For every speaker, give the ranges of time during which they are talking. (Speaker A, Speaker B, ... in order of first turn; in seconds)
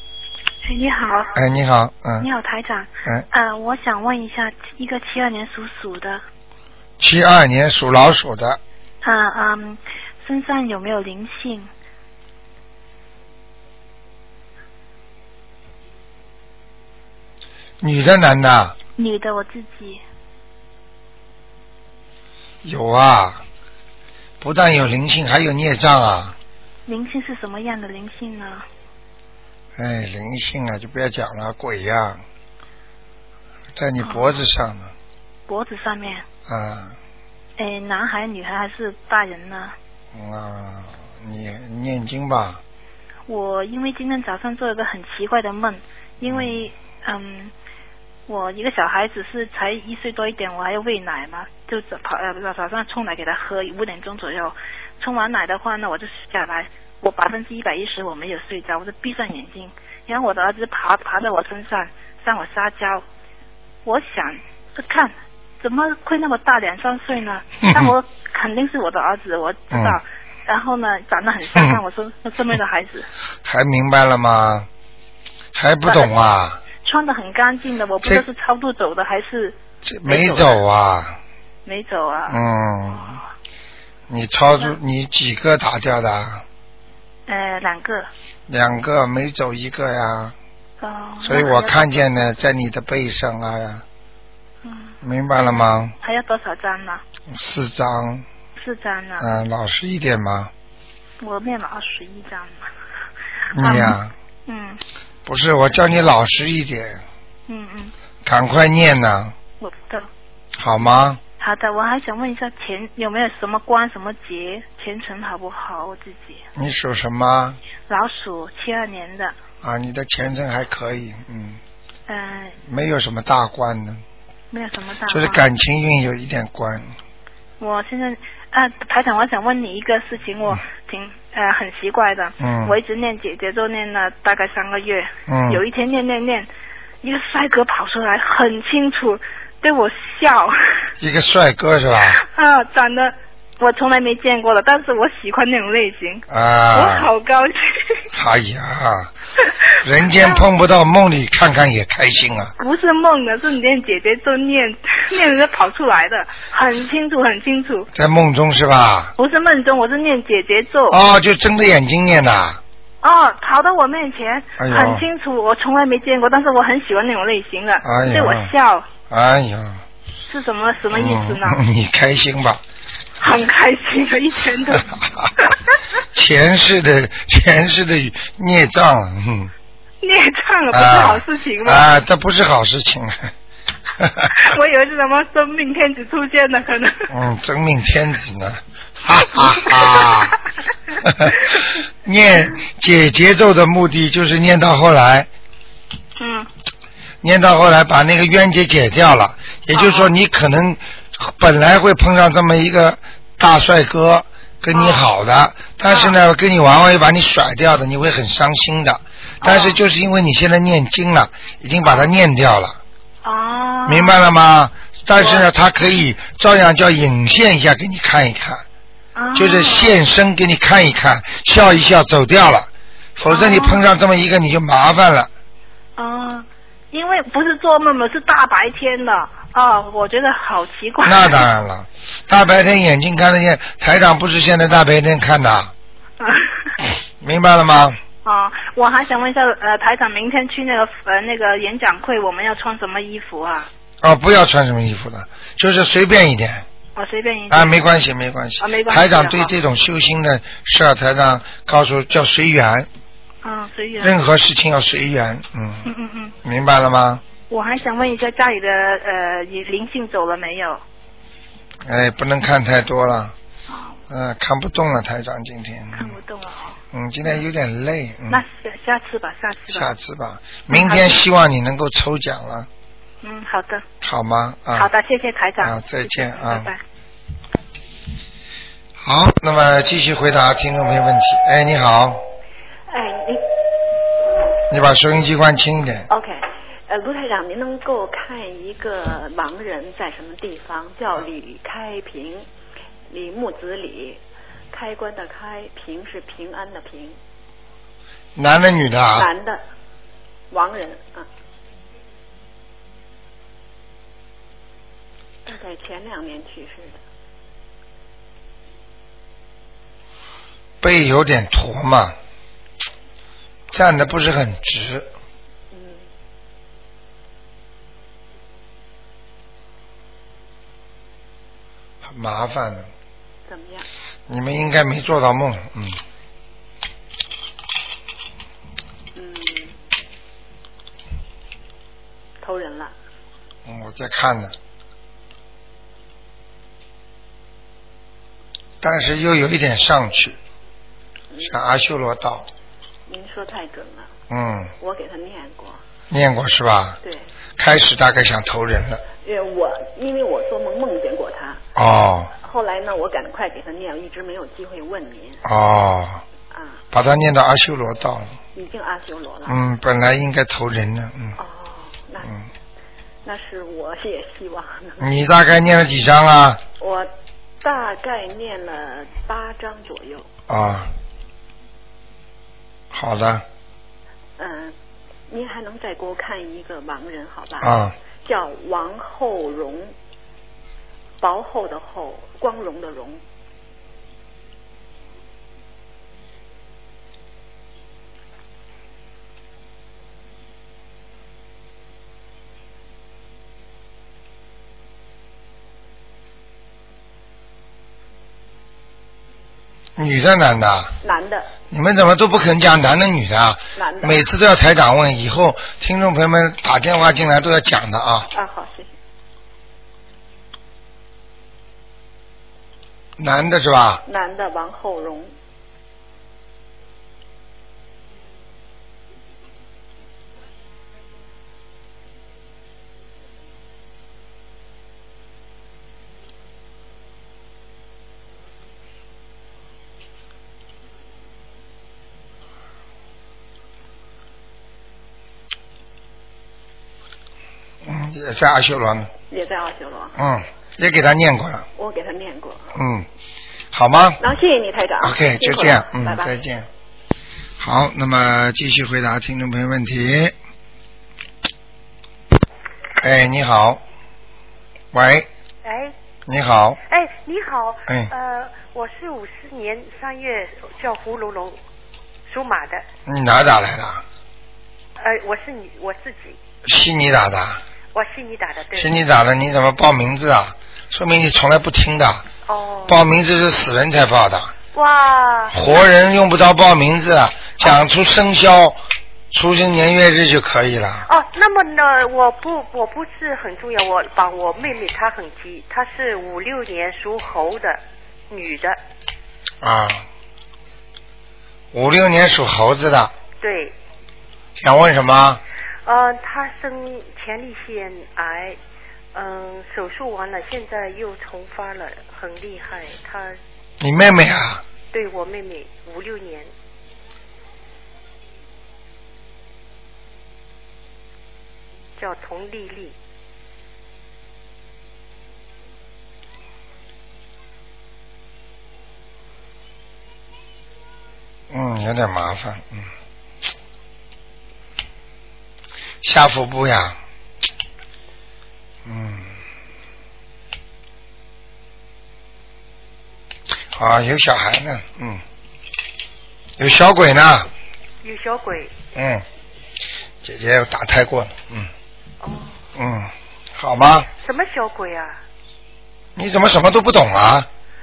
Speaker A: 0.6-1.4, 2.2-6.2, 9.0-11.7, 19.0-20.0, 26.9-28.7, 34.0-34.4, 35.5-36.3, 37.6-39.8, 43.3-47.5, 48.3-63.0, 63.9-73.1, 76.8-80.6, 81.7-82.4, 82.9-83.2, 87.3-88.1, 90.8-92.0, 94.6-95.0, 96.0-97.0, 98.6-99.3, 101.2-102.7, 103.5-104.8, 107.5-107.9, 109.6-110.1, 111.4-116.4, 117.9-119.3, 122.1-122.6, 124.5-125.4, 127.6-136.5, 137.0-140.6, 142.2-148.1, 150.2-150.5, 152.6-157.9, 159.2-161.0, 163.0-168.9, 170.3-171.6, 173.2-174.9, 180.0-181.9, 184.4-187.1, 189.4-190.3, 196.2-196.5, 199.7-200.1, 204.7-205.1, 205.9-206.2, 209.4-209.8, 211.8-212.1, 213.2-214.2, 215.2-215.5, 219.2-220.0, 223.3-223.8, 226.0-231.4, 236.2-236.7, 238.2-243.7, 247.0-247.8, 248.6-249.5, 253.4-254.2, 255.8-256.4, 257.4-260.8, 263.7-264.0, 265.9-266.8, 268.3-269.9, 270.7-271.2, 273.2-273.8, 274.7-276.8
Speaker B: 1.4-2.3, 7.0-8.6, 17.8-18.8, 22.6-23.4, 24.4-26.4, 29.8-32.2, 33.8-34.9, 36.5-37.0, 40.1-42.6, 46.2-46.6, 67.6-68.0, 69.7-70.0, 71.6-71.8, 73.5-74.7, 75.5-76.6, 79.8-81.2, 82.3-83.2, 84.1-86.4, 88.5-90.3, 91.2-93.8, 95.0-95.9, 97.3-98.2, 99.2-100.5, 103.5-104.1, 105.2-107.0, 108.2-109.4, 110.6-111.2, 116.6-117.6, 119.6-121.6, 122.7-124.0, 125.1-126.9, 132.4-132.8, 135.3-135.6, 141.0-142.2, 146.3-147.1, 148.1-149.1, 149.8-152.5, 157.9-159.1, 160.9-162.6, 164.6-165.1, 167.8-168.5, 169.1-169.8, 170.9-172.6, 176.1-179.5, 180.7-183.3, 184.0-184.3, 187.1-190.4, 191.0-195.3, 197.2-212.8, 213.9-218.7, 219.4-225.3, 231.0-235.7, 237.2-238.0, 244.0-246.7, 247.5-252.9, 254.0-255.9, 256.4-257.2, 261.9-263.4, 264.1-266.2, 266.9-268.4, 269.7-272.7, 274.0-274.9, 275.6-276.7, 279.0-282.2, 284.7-286.1, 298.4-299.3, 310.8-312.2, 313.7-315.1, 322.0-322.9, 324.3-326.0, 333.7-334.6, 338.8-340.4, 341.4-342.5, 344.3-344.7, 346.1-347.0, 347.6-349.0, 351.8-352.3, 355.4-356.2, 356.9-358.4, 359.5-361.4, 365.0-366.6, 370.5-370.9, 372.9-373.4, 377.6-377.9, 400.0-400.9, 401.7-408.3, 413.2-414.0, 437.8-439.1, 440.2-441.7, 442.8-443.1, 443.7-444.2, 445.0-446.7, 447.6-450.4, 453.0-453.8, 454.9-455.3, 456.3-456.8, 463.1-464.0, 466.6-467.6, 468.8-472.2, 472.9-474.5, 475.5-478.8, 479.3-481.1, 489.6-490.1, 491.7-493.1, 494.6-495.4, 503.8-504.6, 521.5-522.9, 526.0-527.0, 528.9-529.3, 533.8-535.2, 536.6-537.5, 539.0-539.2, 540.2-541.7, 542.8-544.1, 546.2-547.5
Speaker C: 282.9-283.4, 286.1-292.5, 293.1-294.2, 294.7-297.2, 299.2-299.6, 300.5-301.3, 305.4-307.0, 315.7-316.1, 323.5-323.9, 329.1-329.8, 332.4-332.9, 341.3-341.6, 343.1-344.1, 344.8-345.8, 349.2-351.6, 352.4-355.4, 356.5-356.8, 358.6-359.6, 361.4-362.3, 363.2-365.2, 366.8-370.3, 374.4-374.8, 375.3-379.9, 381.2-383.2, 401.0-401.5, 403.8-404.3, 408.3-408.9, 414.1-415.3, 439.3-440.2, 441.8-442.7, 444.2-446.4
Speaker D: 455.6-455.9, 456.9-461.6, 462.3-462.9, 465.0-466.4, 467.9-468.9, 472.5-473.1, 474.7-475.9, 481.1-488.8, 493.4-493.8, 495.9-498.6, 499.1-503.4, 504.9-506.5, 512.0-513.0, 538.0-538.7, 542.2-542.6, 544.2-545.2